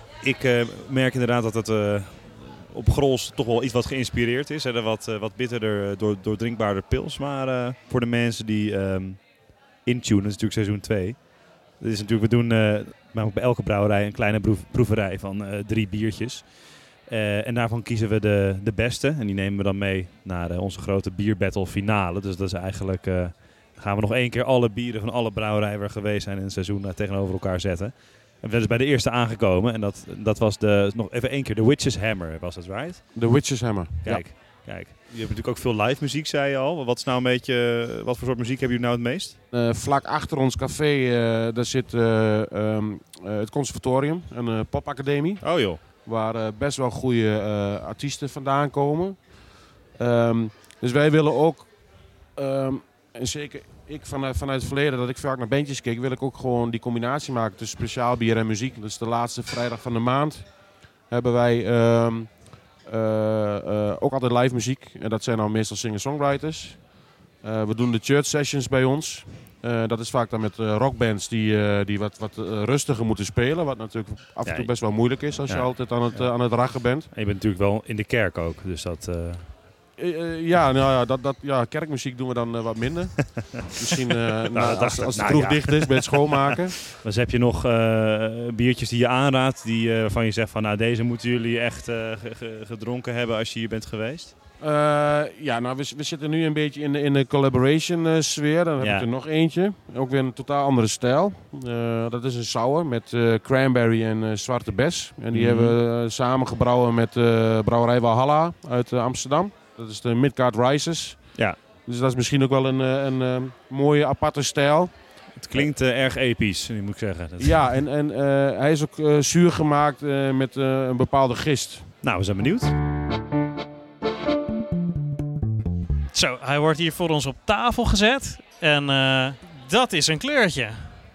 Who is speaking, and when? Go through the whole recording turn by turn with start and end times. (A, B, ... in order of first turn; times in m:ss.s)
0:00.2-0:39.4 A
0:33.1-0:34.3 B
0:39.5-0:49.3 B
0:45.4-0:45.8 A
0:49.9-0:51.8 B
0:52.3-1:17.1 B
1:14.4-1:19.5 A
1:20.0-1:26.8 B
1:24.5-1:34.3 A
1:34.6-1:55.7 B
1:38.8-1:39.0 A
1:45.3-1:45.8 A
1:55.4-1:57.7 A
1:57.4-2:01.9 B
2:02.0-2:02.7 A
2:06.1-2:10.9 C